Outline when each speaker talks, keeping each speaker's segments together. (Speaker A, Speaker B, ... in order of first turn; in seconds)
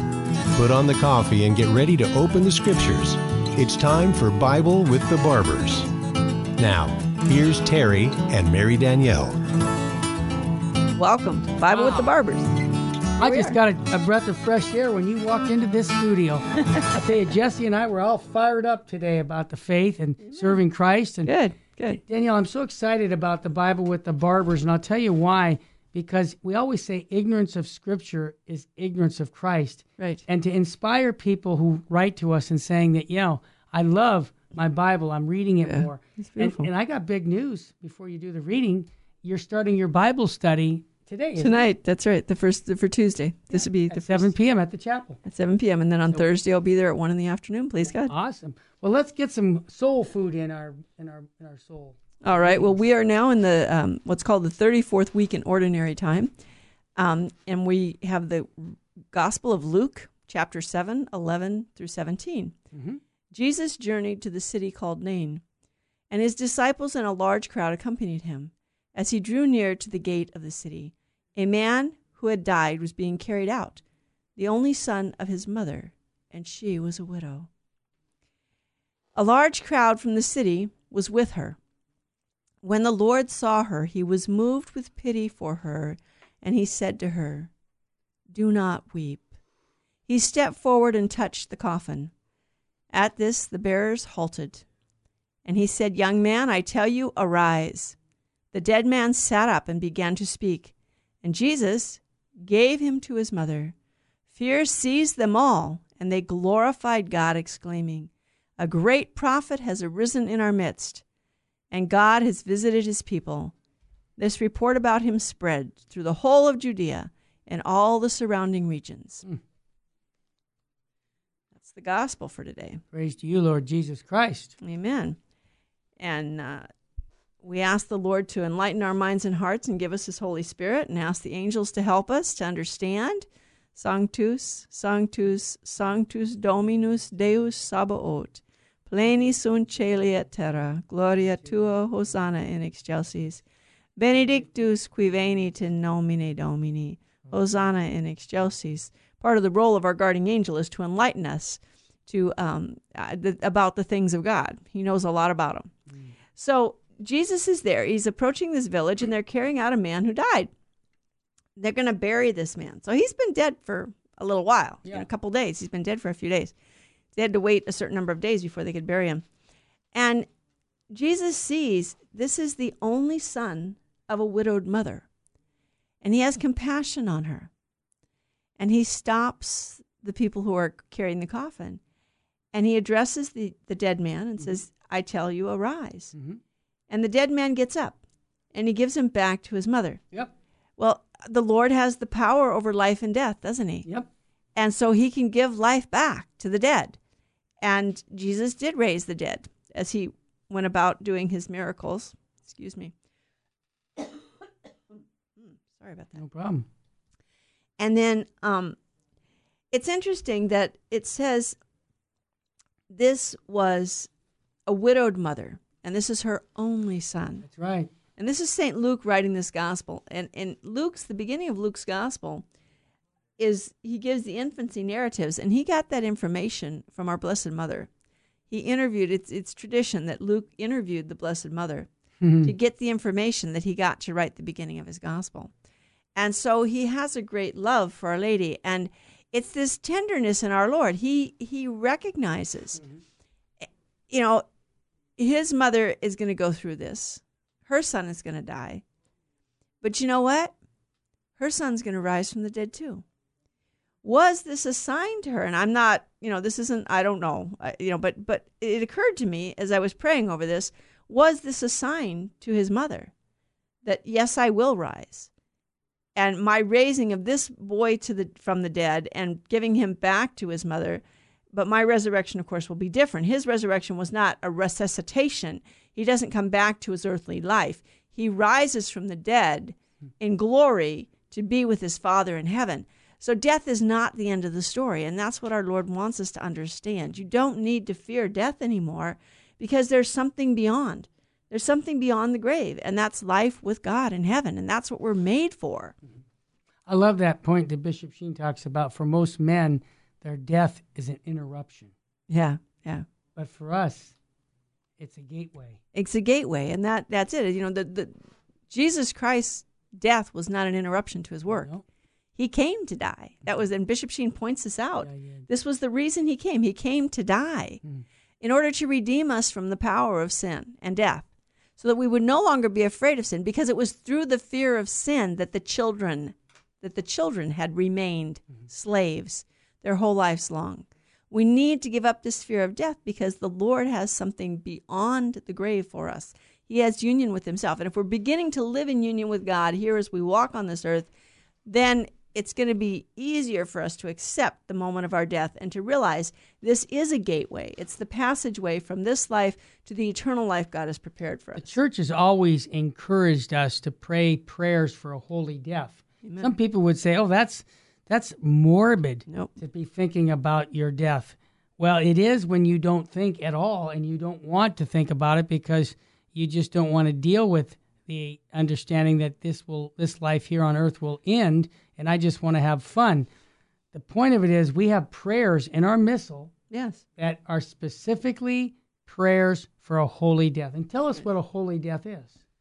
Speaker A: 0.5-5.9, 6.6-9.4
Speaker B: 10.9-12.5, 13.2-13.6, 21.2-22.0, 35.6-36.7, 41.4-44.3, 45.2-48.1, 52.2-56.3, 57.0-62.5, 63.3-65.4, 66.1-73.8, 74.4-77.5, 79.2-81.6, 82.6-87.5, 88.3-89.3, 90.1-92.1, 92.9-94.6, 95.4-98.0, 98.5-103.7, 104.3-111.0, 111.7-113.5, 114.2-119.2, 121.6-122.8, 124.6-125.2, 126.0-126.7, 127.4-143.4, 144.0-155.7, 156.4-160.5, 161.6-166.5, 167.1-169.2, 169.9-170.3, 170.9-175.1, 176.0-177.5, 178.6-181.8, 182.5-186.1, 186.9-188.0, 188.5-190.0, 190.8-193.9, 194.6-197.0, 197.6-202.9, 205.5-206.2, 207.8-208.8, 209.7-211.6, 212.9-214.1, 214.7-217.4, 218.2-222.4, 223.4-227.9, 228.5-231.9, 232.4-235.5, 236.2-242.8, 244.1-244.4, 245.2-248.8, 249.8-250.5, 251.4-253.0, 254.0-263.1, 263.8-265.3, 266.1-295.9, 302.3-303.0, 305.9-308.1, 308.7-311.7, 312.4-317.8, 318.4-321.2, 321.8-341.1, 341.6-351.6, 356.2-356.5, 376.7-377.0
Speaker C: 11.7-12.1, 13.2-21.3, 22.0-41.7, 43.5-45.2, 48.0-52.8, 62.7-63.0, 122.9-124.5, 186.1-186.4, 206.2-206.7, 217.4-217.9, 232.2-232.5, 296.9-301.9, 303.4-304.1, 305.0-305.8, 311.5-311.8, 315.0-315.4, 351.6-373.3, 373.9-376.5, 377.2-382.4